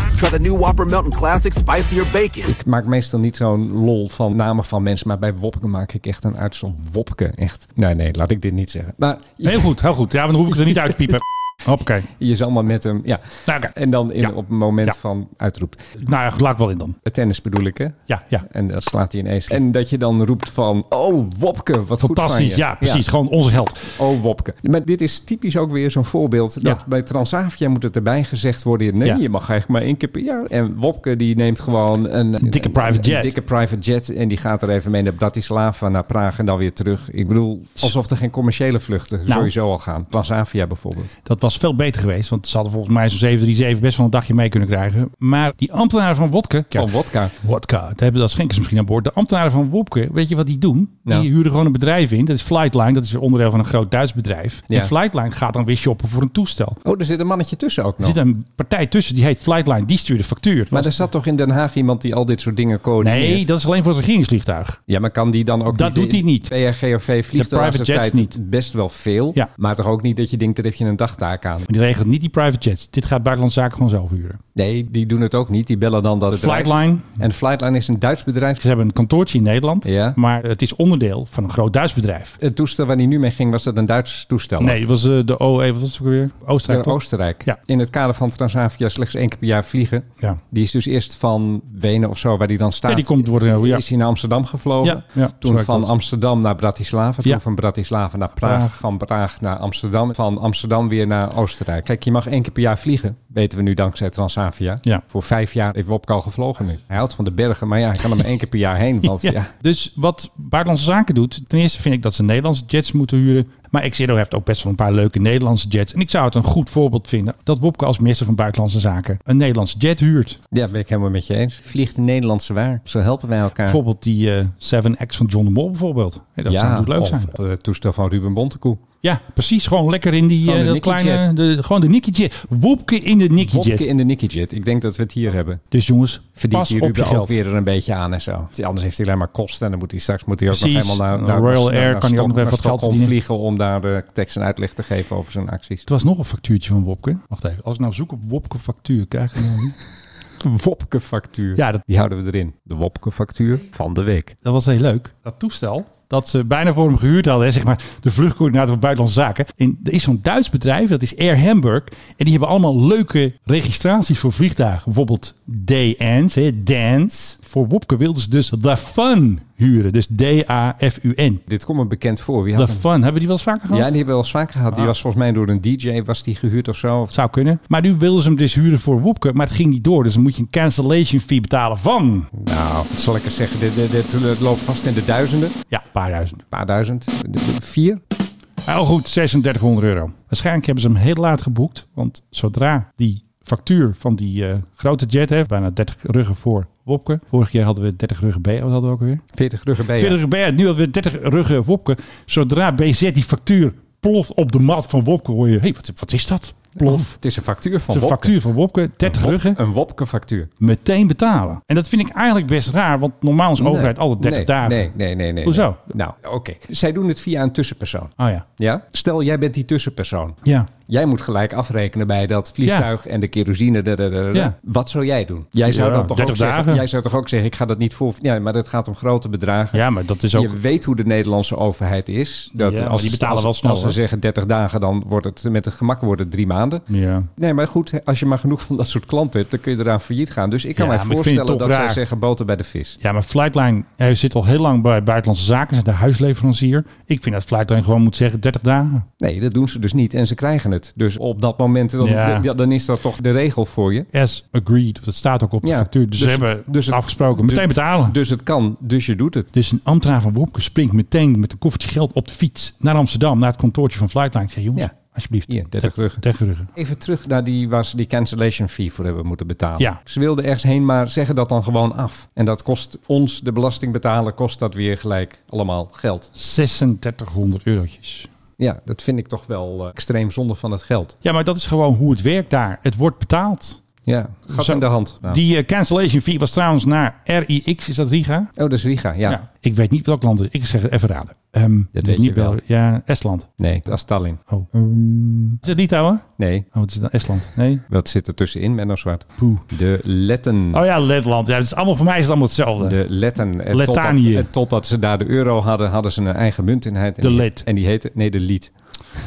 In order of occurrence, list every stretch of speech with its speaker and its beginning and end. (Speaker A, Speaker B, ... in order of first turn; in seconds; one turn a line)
Speaker A: 0.1-2.5
Speaker B: 2.4-9.8
Speaker C: 9.4-12.1
Speaker B: 10.6-11.0
Speaker B: 12.1-15.8
Speaker C: 13.4-14.3
Speaker C: 16.0-17.0
Speaker B: 17.0-23.0
Speaker C: 18.1-18.4
Speaker C: 22.0-23.9
Speaker B: 23.9-41.1
Speaker C: 32.4-33.3
Speaker C: 41.2-56.8
Speaker B: 46.7-47.3
Speaker B: 56.8-58.2
Speaker C: 58.0-60.9
Speaker B: 60.7-63.5
Speaker C: 63.0-64.8
Speaker B: 64.9-71.7
Speaker C: 65.7-66.5
Speaker C: 67.3-68.4
Speaker C: 71.7-74.4
Speaker B: 74.5-78.6
Speaker C: 76.3-77.2
Speaker C: 78.6-82.3
Speaker B: 79.8-80.2
Speaker B: 82.4-84.8
Speaker C: 84.6-87.6
Speaker B: 86.7-109.5
Speaker C: 92.9-93.8
Speaker C: 94.8-95.9
Speaker C: 98.4-98.8
Speaker C: 109.2-120.4
Speaker B: 120.5-123.8
Speaker C: 123.6-127.3
Speaker B: 126.5-128.8
Speaker C: 129.0-133.9
Speaker B: 130.4-131.3
Speaker B: 133.4-135.6
Speaker C: 135.7-137.3
Speaker B: 136.4-145.8
Speaker C: 140.5-143.1
Speaker C: 145.9-149.8
Speaker B: 150.4-154.3
Speaker C: 151.5-151.8
Speaker C: 154.4-171.4
Speaker B: 171.5-172.8
Speaker C: 172.6-173.9
Speaker B: 173.7-177.1
Speaker C: 177.1-182.3
Speaker B: 182.3-185.6
Speaker C: 185.7-186.4
Speaker B: 186.5-188.0
Speaker C: 188.6-199.2
Speaker B: 199.3-200.2
Speaker C: 199.9-207.2
Speaker B: 206.8-208.4
Speaker C: 207.9-209.6
Speaker B: 209.0-210.5
Speaker C: 210.6-214.9
Speaker B: 213.6-236.8
Speaker C: 215.4-215.8
Speaker C: 218.2-218.4
Speaker C: 222.6-222.9
Speaker C: 225.6-226.8
Speaker C: 229.7-230.6
Speaker C: 232.5-234.0
Speaker C: 236.9-237.3
Speaker B: 237.4-243.0
Speaker C: 240.7-242.0
Speaker C: 243.0-249.1
Speaker B: 249.2-254.1
Speaker C: 252.0-252.5
Speaker C: 254.1-258.2
Speaker B: 255.6-259.5
Speaker C: 259.5-266.7
Speaker B: 265.5-266.2
Speaker B: 266.7-276.3
Speaker C: 276.3-278.3
Speaker B: 278.6-281.1
Speaker C: 281.2-283.8
Speaker B: 284.0-285.4
Speaker C: 284.5-288.5
Speaker B: 288.6-289.4
Speaker C: 289.2-293.5
Speaker B: 291.9-292.6
Speaker B: 293.6-294.4
Speaker C: 294.5-297.8
Speaker B: 296.4-296.7
Speaker B: 297.9-300.8
Speaker C: 299.4-299.6
Speaker C: 300.7-303.0
Speaker B: 302.8-308.7
Speaker C: 303.7-304.5
Speaker C: 307.2-307.6